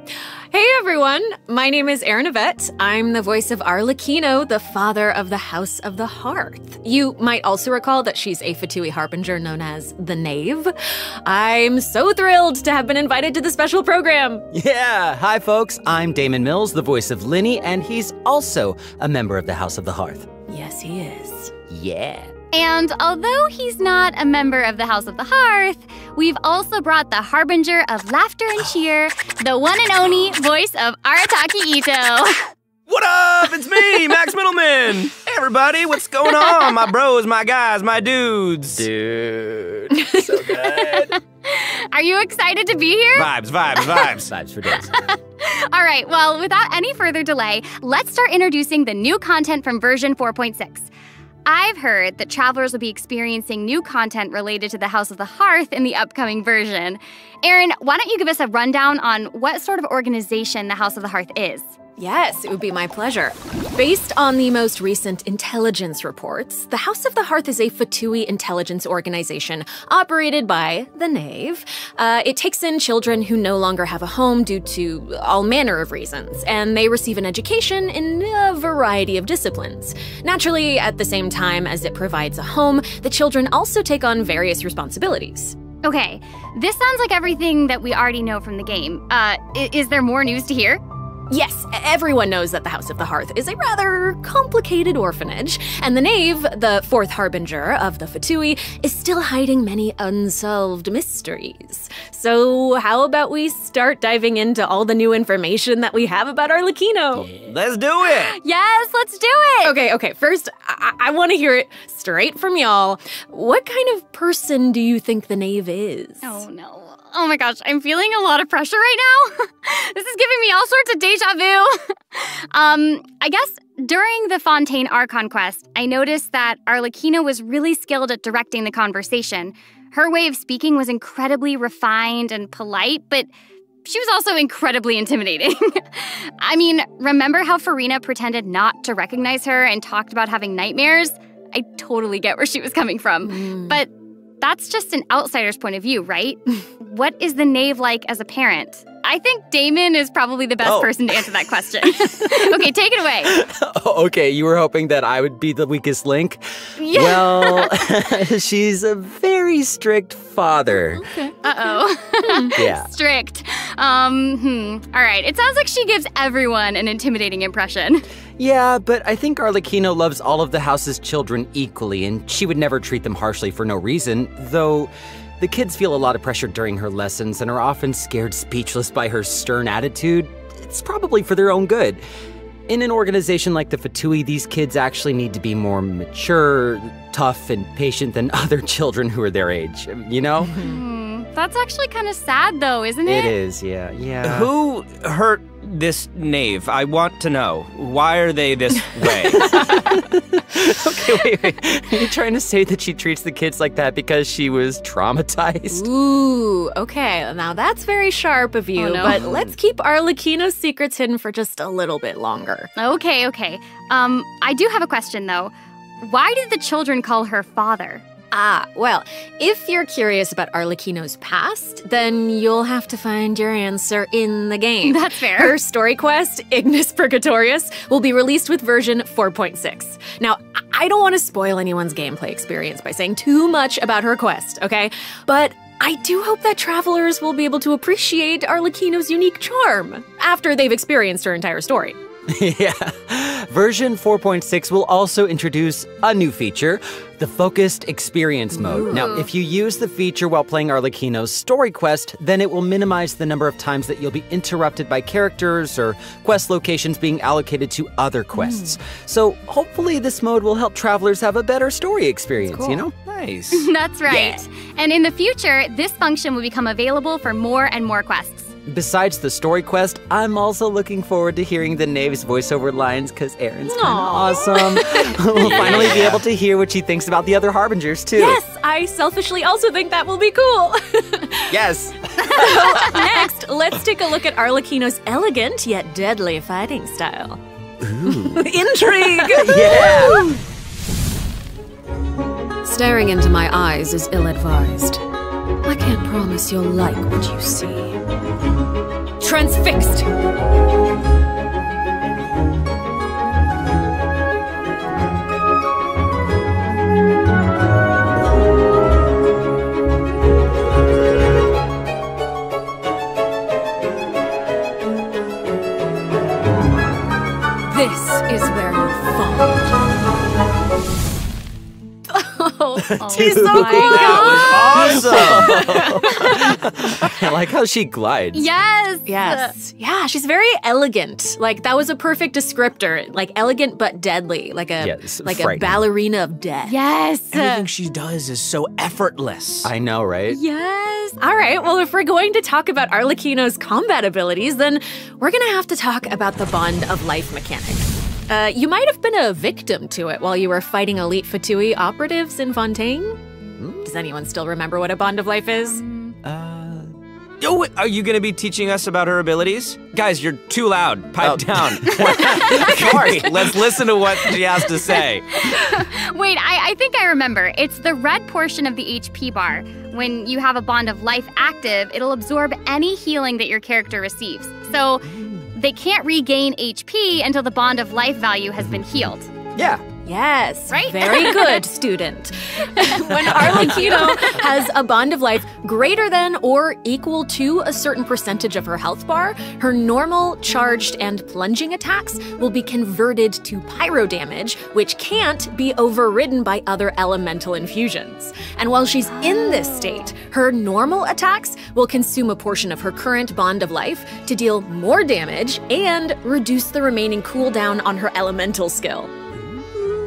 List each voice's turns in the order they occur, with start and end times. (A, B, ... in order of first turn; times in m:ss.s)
0:00.5-0:14.5 A
0:14.5-0:20.3 B
0:20.5-0:21.5 A
0:21.7-0:22.3 B
0:22.5-0:32.5 C
0:32.9-0:38.9 D
0:38.8-0:41.1 B
0:40.0-0:40.4 A
0:40.6-0:43.4 C
0:43.2-0:44.2 D
0:44.1-0:44.9 B
0:44.7-0:50.9 C
0:51.5-1:01.8 C
1:02.0-1:25.6 A
1:25.8-1:30.8 C
1:31.3-1:47.3 A
1:47.2-1:47.6 B
1:47.4-1:48.3 D
1:48.0-1:49.8 C
1:49.6-1:56.4 A
1:56.2-2:13.3 C
2:13.8-2:23.9 C
2:23.2-2:23.8 A
2:24.4-2:33.4 C
2:30.6-2:31.3 B
2:32.0-2:32.7 B
2:33.3-2:41.1 B
2:36.8-2:37.7 C
2:40.9-2:41.4 A
2:41.4-2:48.1 C
2:42.2-2:42.6 A
2:42.6-2:42.9 B
2:48.4-3:02.0 B
3:02.7-3:10.6 B
3:10.6-3:13.4 C
3:13.1-3:14.5 B
3:14.2-3:19.6 D
3:19.4-3:25.9 B
3:25.7-3:32.7 A
3:28.8-3:29.2 C
3:29.0-3:29.6 B
3:32.8-3:38.1 C
3:38.3-4:02.0 A
3:44.8-3:45.6 C
4:02.3-4:22.9 B
4:08.5-4:09.3 A
4:08.9-4:09.3 C
4:18.3-4:18.8 A
4:22.5-4:22.9 A
4:23.0-4:23.7 D
4:23.5-4:28.5 C
4:24.1-4:24.4 A
4:28.6-4:38.4 B
4:33.6-4:36.2 A
4:35.6-4:36.0 C
4:38.2-4:41.6 A
4:41.5-4:43.0 B
4:42.2-4:42.9 C
4:42.2-4:47.4 A
4:47.8-4:48.5 B
4:48.1-4:50.4 A
4:49.4-4:50.3 B
4:52.6-4:55.0 A
4:55.6-4:58.0 A
4:59.2-5:00.1 A
5:17.7-5:19.8 A
5:22.1-5:26.2 A
5:22.8-5:24.0 B
5:23.0-5:24.6 C
5:23.8-5:25.5 D
5:24.7-5:28.5 B
5:25.7-5:26.4 C
5:28.3-5:29.6 C
5:29.0-5:36.8 A
5:34.8-5:35.9 B
5:36.6-5:37.7 C
5:37.3-5:39.7 D
5:39.6-5:40.4 B
5:40.3-5:41.2 C
5:41.2-5:53.2 A
5:53.6-5:53.9 B
5:53.8-5:55.8 A
5:55.7-5:56.2 C
5:56.2-5:56.9 B
5:57.4-6:05.2 D
6:01.2-6:03.8 B
6:01.8-6:02.8 C
6:04.3-6:19.3 C
6:15.1-6:15.4 B
6:18.6-6:19.8 B
6:20.0-6:49.1 A
6:20.7-6:21.7 C
6:22.8-6:23.1 C
6:23.1-6:24.4 B
6:39.1-6:40.1 C
6:49.4-6:49.6 B